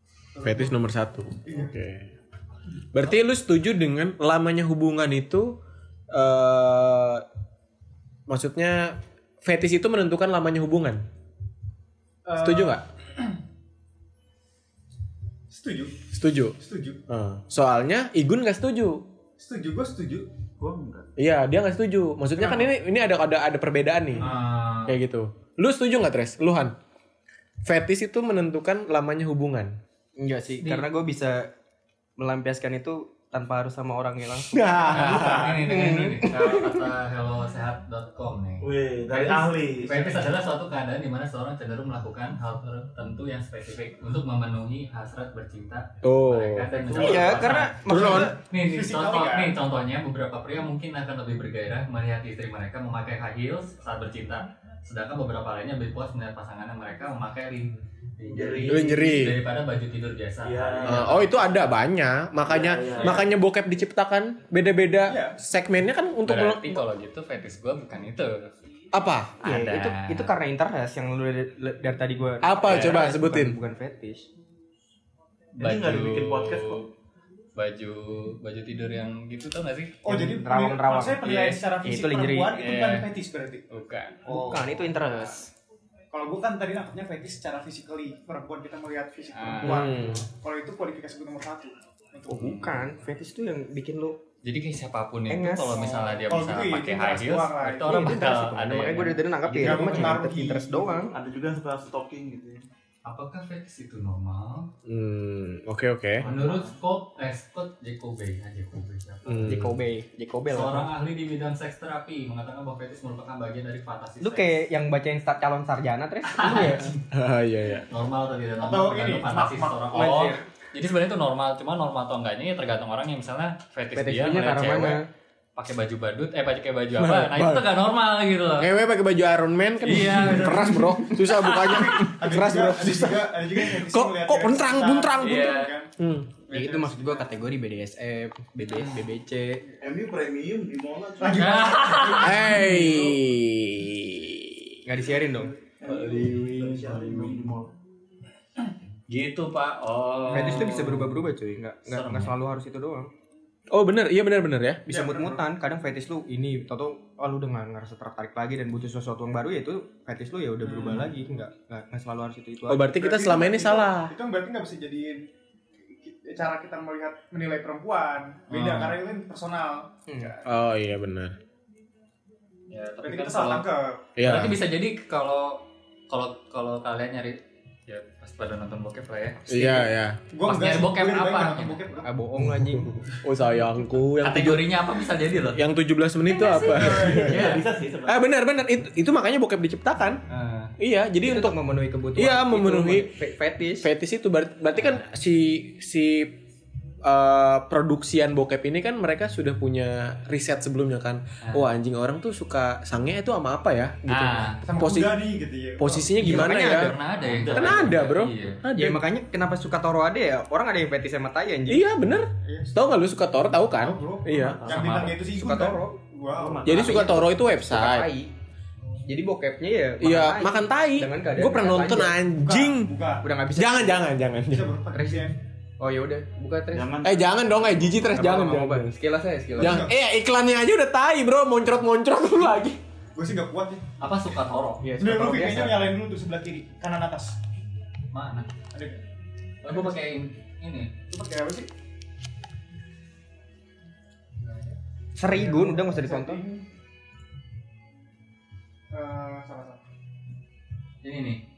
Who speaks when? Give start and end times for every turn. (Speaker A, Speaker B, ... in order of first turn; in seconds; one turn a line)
Speaker A: 0.3-0.8
Speaker B: 0.4-2.1
Speaker A: 1.4-1.8
Speaker B: 2.9-5.6
Speaker B: 6.1-7.2
Speaker B: 8.3-11.0
Speaker A: 12.2-13.4
Speaker B: 12.4-12.8
Speaker A: 15.5-15.9
Speaker B: 16.1-16.6
Speaker A: 16.6-17.0
Speaker B: 17.1-19.0
Speaker A: 19.4-20.3
Speaker C: 20.6-21.1
Speaker B: 21.2-24.3
Speaker A: 22.4-22.7
Speaker A: 24.2-24.5
Speaker D: 24.2-25.0
Speaker B: 24.9-26.8
Speaker B: 27.6-29.8
Speaker E: 30.2-31.5
Speaker D: 30.6-30.9
Speaker E: 32.2-36.8
Speaker B: 34.5-35.5
Speaker D: 34.9-61.6
Speaker C: 34.9-35.7
Speaker C: 38.6-40.3
Speaker B: 46.0-46.7
Speaker C: 46.8-47.7
Speaker E: 46.9-48.4
Speaker B: 47.9-48.3
Speaker A: 48.5-49.6
Speaker C: 58.2-59.2
Speaker B: 58.7-59.4
Speaker C: 60.4-61.4
Speaker B: 60.9-66.8
Speaker C: 62.4-63.3
Speaker D: 63.0-63.2
Speaker A: 65.0-65.4
Speaker D: 66.2-68.5
Speaker B: 68.9-69.4
Speaker D: 69.4-70.3
Speaker E: 69.4-74.3
Speaker B: 72.4-73.6
Speaker D: 72.7-73.0
Speaker D: 75.5-76.8
Speaker C: 75.6-76.8
Speaker D: 77.6-80.2
Speaker A: 80.0-83.7
Speaker E: 80.1-82.6
Speaker D: 81.2-81.6
Speaker D: 82.6-83.1
Speaker D: 83.7-84.6
Speaker E: 84.2-85.5
Speaker A: 84.3-84.7
Speaker A: 86.1-92.7
Speaker D: 89.3-89.9
Speaker B: 89.6-90.2
Speaker E: 92.3-94.2
Speaker D: 94.4-100.1
Speaker E: 95.3-96.1
Speaker A: 96.2-98.2
Speaker E: 97.9-101.1
Speaker A: 99.6-101.1
Speaker C: 101.1-102.7
Speaker D: 103.0-104.7
Speaker B: 104.8-106.3
Speaker C: 106.2-106.8
Speaker D: 106.2-109.7
Speaker B: 109.3-109.8
Speaker E: 109.5-110.9
Speaker D: 110.5-114.6
Speaker E: 114.2-117.0
Speaker D: 116.3-117.0
Speaker B: 117.1-117.9
Speaker D: 117.9-125.0
Speaker A: 118.6-119.9
Speaker E: 119.9-120.4
Speaker E: 123.9-125.1
Speaker D: 125.6-128.7
Speaker B: 127.0-127.8
Speaker B: 128.6-136.3
Speaker D: 129.8-132.1
Speaker A: 130.1-135.9
Speaker D: 135.2-135.7
Speaker A: 136.4-137.4
Speaker E: 136.5-139.6
Speaker A: 138.7-139.1
Speaker C: 139.8-142.2
Speaker A: 141.2-143.2
Speaker D: 141.4-142.5
Speaker B: 142.2-144.8
Speaker E: 144.8-145.5
Speaker C: 145.3-147.7
Speaker B: 145.9-147.5
Speaker D: 149.1-151.2
Speaker E: 150.3-153.1
Speaker D: 151.9-152.3
Speaker B: 153.7-154.8
Speaker A: 154.9-155.5
Speaker E: 154.9-162.9
Speaker A: 160.6-161.1
Speaker B: 162.7-164.1
Speaker A: 162.9-165.2
Speaker A: 165.9-170.5
Speaker D: 168.5-169.0
Speaker E: 170.1-170.3
Speaker B: 170.4-171.4
Speaker D: 172.7-173.7
Speaker A: 173.0-174.0
Speaker B: 174.2-174.6
Speaker D: 174.2-179.4
Speaker E: 179.5-179.9
Speaker B: 179.5-180.2
Speaker A: 180.3-182.1
Speaker D: 180.4-181.9
Speaker E: 182.0-183.0
Speaker B: 182.4-184.8
Speaker D: 184.2-185.6
Speaker B: 185.5-190.2
Speaker D: 186.4-187.6
Speaker A: 186.5-187.5
Speaker C: 187.1-188.2
Speaker D: 190.3-190.7
Speaker B: 190.8-191.6
Speaker E: 191.2-193.9
Speaker B: 192.2-193.2
Speaker B: 193.8-196.4
Speaker B: 197.0-205.2
Speaker D: 201.4-201.7
Speaker D: 204.1-204.6
Speaker A: 204.6-206.2
Speaker B: 205.8-206.9
Speaker E: 206.2-207.0
Speaker D: 206.2-208.6
Speaker C: 207.2-208.0
Speaker B: 207.5-209.0
Speaker E: 208.7-211.9
Speaker B: 211.7-214.6
Speaker A: 212.4-212.9
Speaker A: 213.7-216.7
Speaker C: 214.4-215.2
Speaker D: 214.7-215.2
Speaker E: 215.3-216.0
Speaker C: 216.3-217.2
Speaker B: 216.6-218.1
Speaker E: 216.6-218.3
Speaker E: 219.1-222.2
Speaker B: 220.0-222.9
Speaker A: 222.4-223.3
Speaker E: 223.2-224.2
Speaker B: 223.6-224.8
Speaker A: 224.5-225.4
Speaker E: 224.9-227.0
Speaker C: 226.7-228.5
Speaker B: 227.0-228.9
Speaker E: 228.1-229.9
Speaker A: 229.6-230.0
Speaker B: 229.6-232.8
Speaker A: 233.2-233.9
Speaker D: 234.0-234.8
Speaker E: 234.8-235.9
Speaker A: 235.0-237.4
Speaker D: 238.1-238.5
Speaker A: 238.7-239.0
Speaker D: 239.6-240.9
Speaker A: 239.7-240.1
Speaker A: 241.1-241.7
Speaker D: 244.4-244.8
Speaker E: 245.2-246.4
Speaker A: 245.3-246.7
Speaker A: 248.9-249.8
Speaker D: 251.0-251.4